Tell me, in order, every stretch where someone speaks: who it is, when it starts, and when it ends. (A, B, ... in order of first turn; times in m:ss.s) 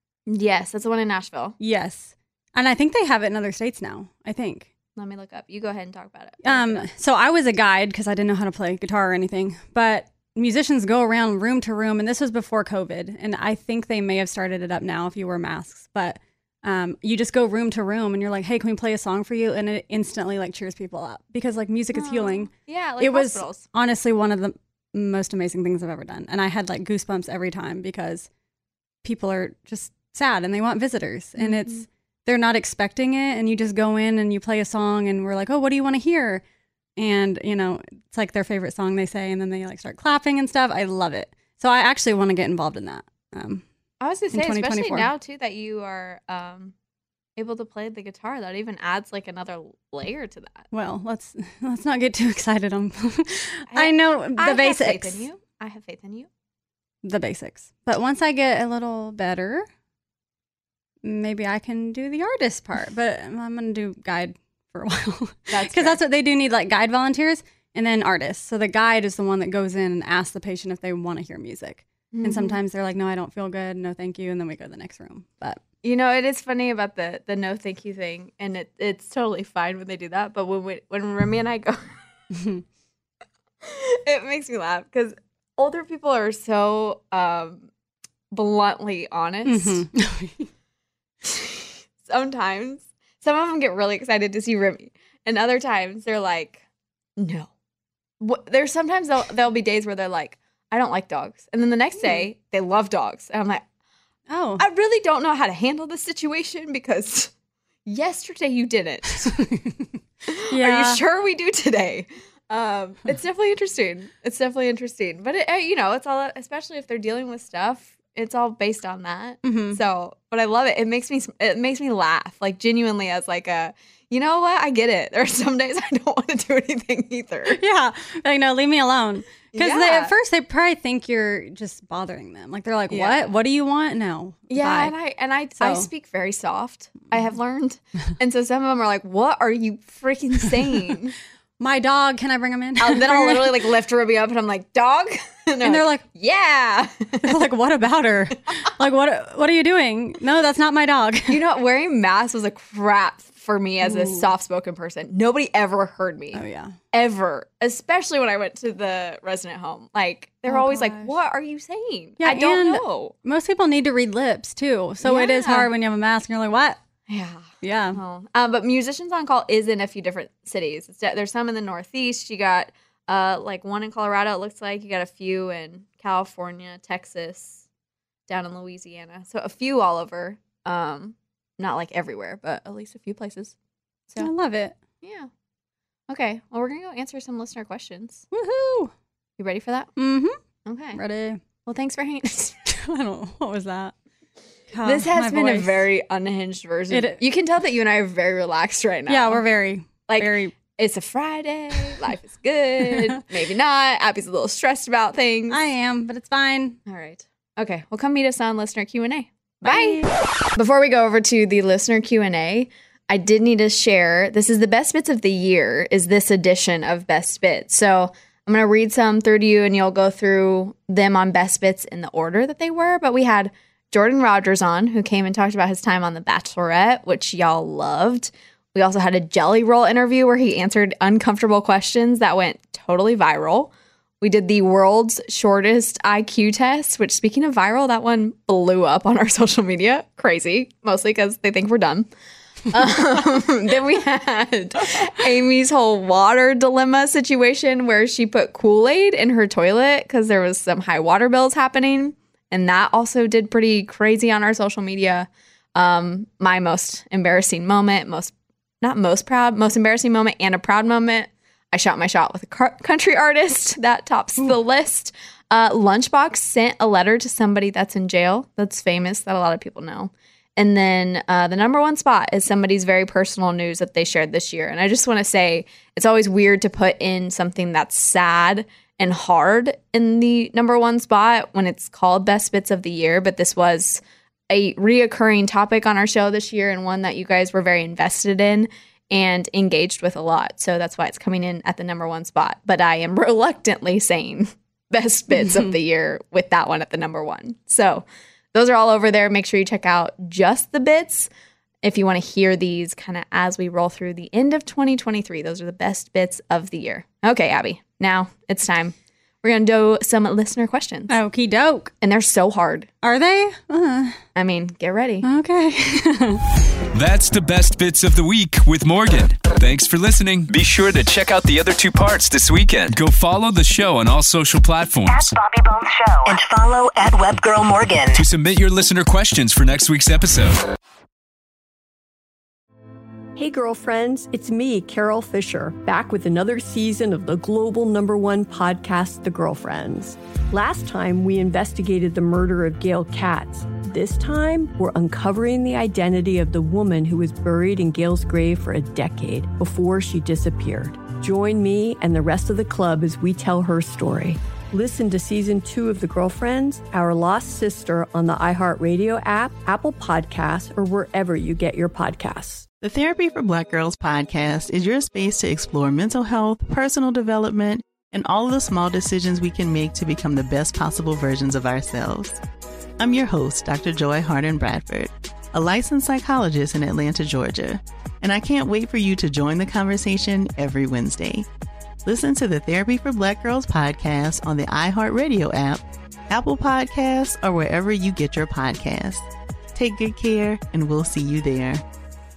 0:00.3-0:01.6 A
0:01.6-0:04.7 B
0:05.0-0:06.9 A
0:06.4-0:28.3 B
0:21.9-0:23.7 A
0:29.0-0:36.4 B
0:31.4-0:31.8 A
0:37.0-0:43.6 B
0:44.0-0:46.7 A
0:44.3-0:45.1 B
0:47.4-0:50.7 A
0:50.7-0:55.2 B
0:53.7-0:56.3 A
0:57.0-0:59.7 B
1:01.0-1:15.6 B
1:05.5-1:06.0 A
1:12.1-1:12.6 A
1:15.8-1:21.9 A
1:22.3-1:22.6 B
1:23.6-1:27.7 A
1:28.3-1:29.8 A
1:29.5-1:30.5 B
1:31.2-1:36.6 A
1:37.2-1:37.5 A
1:38.2-1:43.6 A
1:44.3-1:44.6 B
1:44.6-1:47.3 A
1:47.9-1:49.3 A
1:49.2-1:49.9 B
1:50.3-2:07.6 A
1:50.5-1:51.0 B
1:59.4-1:59.8 B
2:07.5-2:14.9 B
2:09.5-2:10.1 A
2:12.9-2:13.3 A
2:14.5-2:21.2 A
2:15.6-2:15.9 B
2:21.6-2:23.7 B
2:22.8-2:27.4 A
2:25.6-2:26.0 B
2:27.2-2:31.4 B
2:31.3-2:43.1 A
2:33.8-2:34.3 B
2:36.3-2:36.8 B
2:40.5-2:41.1 B
2:42.2-2:46.8 B
2:45.0-2:45.7 A
2:47.1-2:57.6 A
2:47.6-2:48.0 B
2:58.3-3:03.6 A
3:04.2-3:04.8 B
3:05.0-3:05.3 A
3:06.1-3:08.2 A
3:08.3-3:08.9 B
3:09.4-3:09.9 A
3:10.0-3:10.4 B
3:10.7-3:11.0 A
3:10.9-3:11.4 B
3:11.6-3:12.6 A
3:12.7-3:13.9 B
3:14.7-3:15.8 B
3:14.8-3:19.4 A
3:16.9-3:17.2 B
3:19.1-3:20.5 B
3:20.1-3:25.6 A
3:25.5-3:26.8 B
3:26.9-3:30.0 A
3:29.6-3:30.1 B
3:30.6-4:02.1 A
4:02.7-5:01.3 A
5:01.8-5:11.2 A
5:11.1-5:11.9 B
5:12.0-5:12.9 A
5:13.0-5:14.2 B
5:14.4-5:15.2 A
5:15.2-5:16.4 B
5:16.9-5:25.3 C
5:25.3-5:28.0 D
5:28.1-5:30.6 C
5:33.4-6:02.7 E
6:02.8-6:12.4 F
6:13.0-6:21.5 F
6:22.1-6:31.8 F